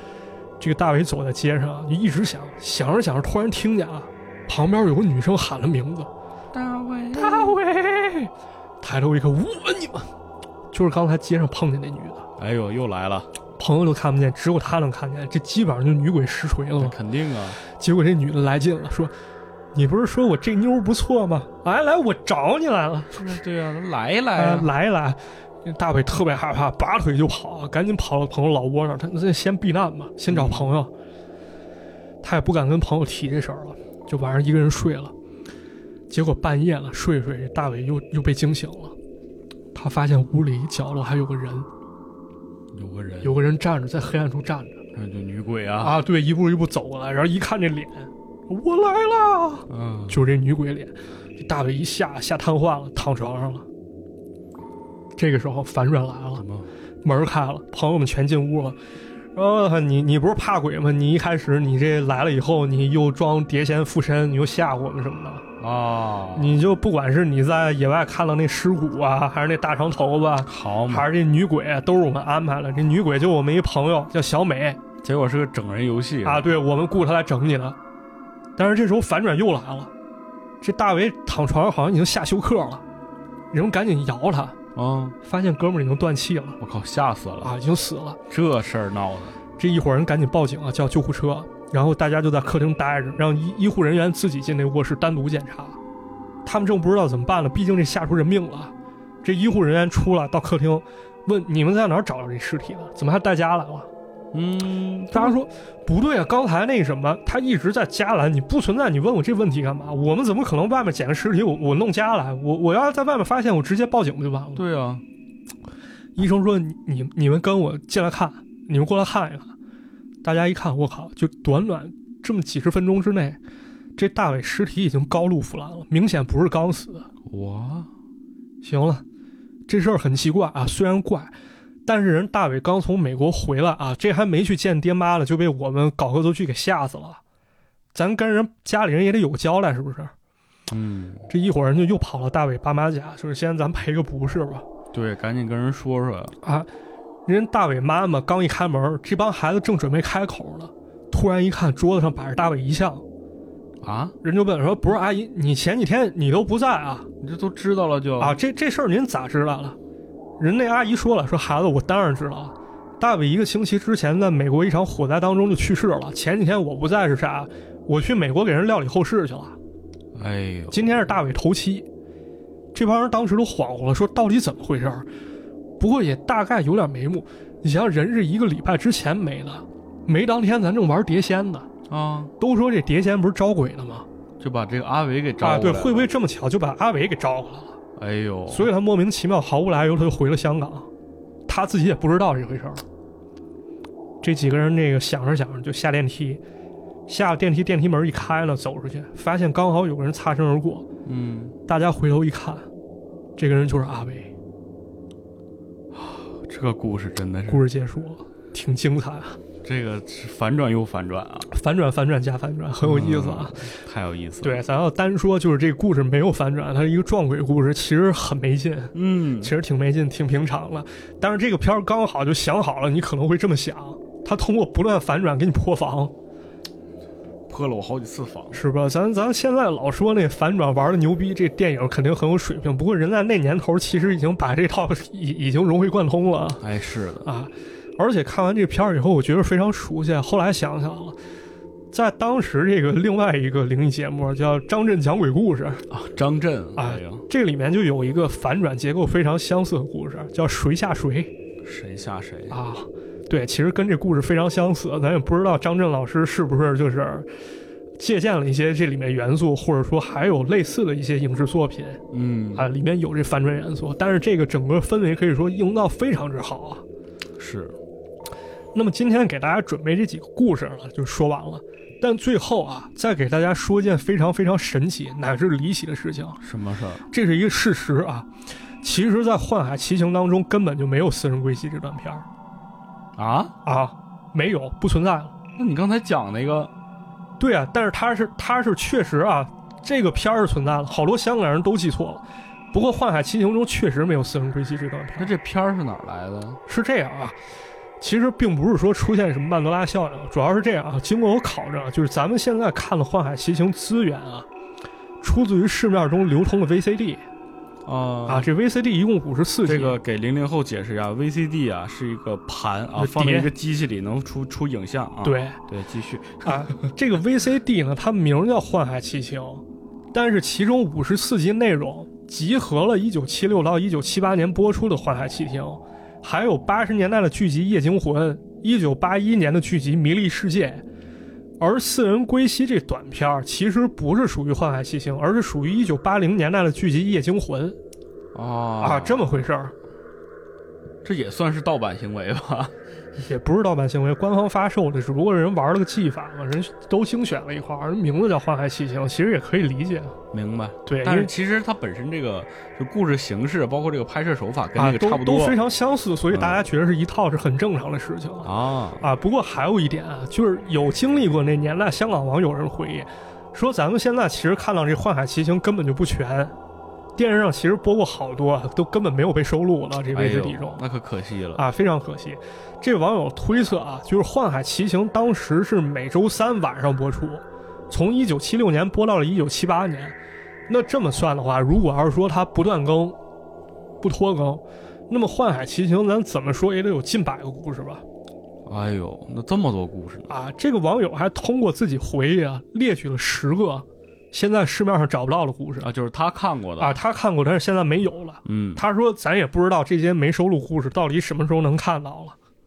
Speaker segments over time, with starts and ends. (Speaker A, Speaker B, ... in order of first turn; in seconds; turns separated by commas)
Speaker A: 0.6-6.1, Speaker B: 6.5-7.6, Speaker A: 7.1-10.1, Speaker A: 10.7-12.3, Speaker B: 12.4-13.3, Speaker A: 13.6-16.9, Speaker B: 16.8-17.6, Speaker A: 17.6-19.1, Speaker A: 19.7-23.3, Speaker B: 23.1-24.7, Speaker A: 24.4-30.9, Speaker B: 30.3-30.7, Speaker A: 32.2-35.1, Speaker A: 36.1-38.9, Speaker A: 39.7-41.7, Speaker B: 42.7-43.3, Speaker A: 43.2-44.8, Speaker B: 45.0-46.0, Speaker A: 45.8-53.6, Speaker B: 49.7-50.2, Speaker A: 55.2-56.4, Speaker B: 56.4-56.7, Speaker A: 57.0-58.8, Speaker A: 59.4-65.4, Speaker B: 65.6-66.6, Speaker A: 66.3-74.8, Speaker B: 70.5-71.1, Speaker B: 75.0-76.5, Speaker A: 76.2-77.8, Speaker A: 78.6-79.9, Speaker A: 80.6-82.8, Speaker A: 83.5-84.6, Speaker B: 84.7-85.2, Speaker A: 85.2-86.6, Speaker B: 86.6-87.5, Speaker A: 87.4-88.2, Speaker B: 88.3-89.4, Speaker A: 89.6-95.8, Speaker A: 96.5-98.7, Speaker A: 99.2-103.9, Speaker B: 104.3-105.3, Speaker A: 105.1-114.6, Speaker B: 114.5-115.0, Speaker A: 116.2-119.5, Speaker A: 120.2-123.4, Speaker A: 124.0-127.1, Speaker B: 127.2-127.9, Speaker A: 128.6-129.0, Speaker A: 129.7-131.3, Speaker A: 131.8-137.2, Speaker A: 137.9-140.1, Speaker B: 140.7-141.3, Speaker A: 141.3-144.6, Speaker B: 144.9-146.3, Speaker A: 146.4-146.7, Speaker A: 147.3-153.0, Speaker B: 153.8-154.1, Speaker A: 154.2-157.1, Speaker B: 157.2-158.4, Speaker A: 158.2-159.8, Speaker A: 160.4-169.6, Speaker B: 170.1-170.8, Speaker A: 170.7-171.8, Speaker A: 172.7-175.1, Speaker A: 175.8-181.7, Speaker B: 181.9-182.3, Speaker A: 182.4-184.1, Speaker B: 184.4-186.1, Speaker A: 185.4-187.8, Speaker B: 187.9-188.7, Speaker A: 188.5-190.9, Speaker A: 191.5-192.8, Speaker A: 194.2-196.4, Speaker A: 197.1-200.8, Speaker B: 201.0-201.6, Speaker A: 201.7-202.6, Speaker A: 203.4-204.3, Speaker B: 205.9-207.6, Speaker A: 207.5-209.4, Speaker B: 209.6-211.5, Speaker A: 211.5-213.7, Speaker B: 212.8-214.6, Speaker A: 214.4-226.1, Speaker B: 218.9-219.5, Speaker B: 227.5-228.6, Speaker A: 228.5-236.6, Speaker B: 236.6-237.3, Speaker A: 237.2-241.1, Speaker A: 241.9-245.8, Speaker B: 245.9-247.2, Speaker A: 246.8-251.3, Speaker B: 251.6-252.6, Speaker A: 252.5-257.3, Speaker A: 258.0-262.0, Speaker B: 262.1-262.7, Speaker A: 262.6-266.8, Speaker B: 267.4-267.8, Speaker A: 268.7-276.4, Speaker B: 276.4-277.0, Speaker A: 277.1-278.3, Speaker A: 278.8-282.2, Speaker B: 283.2-283.5, Speaker A: 283.6-285.3, Speaker B: 285.6-286.7, Speaker A: 287.4-295.3, Speaker B: 295.2-296.6, Speaker A: 296.7-297.4, Speaker A: 298.0-304.5, Speaker A: 305.2-307.2, Speaker B: 307.9-308.5, Speaker A: 308.3-310.0, Speaker B: 309.6-316.7, Speaker A: 313.0-313.5, Speaker A: 315.2-315.6, Speaker A: 316.4-319.6, Speaker A: 320.1-330.8, Speaker A: 331.6-337.8, Speaker B: 338.3-339.3, Speaker A: 338.8-339.7, Speaker B: 341.0-342.7, Speaker A: 343.2-350.1, Speaker B: 350.3-355.6, Speaker A: 350.9-351.3, Speaker A: 354.8-366.5, Speaker B: 356.3-356.6, Speaker B: 358.4-359.0, Speaker A: 367.1-370.8, Speaker B: 370.1-371.6, Speaker A: 371.5-380.1, Speaker A: 380.7-383.1, Speaker A: 384.0-388.0, Speaker B: 388.6-390.3, Speaker A: 390.3-395.9, Speaker B: 395.8-397.0, Speaker A: 396.8-402.3, Speaker B: 398.4-398.8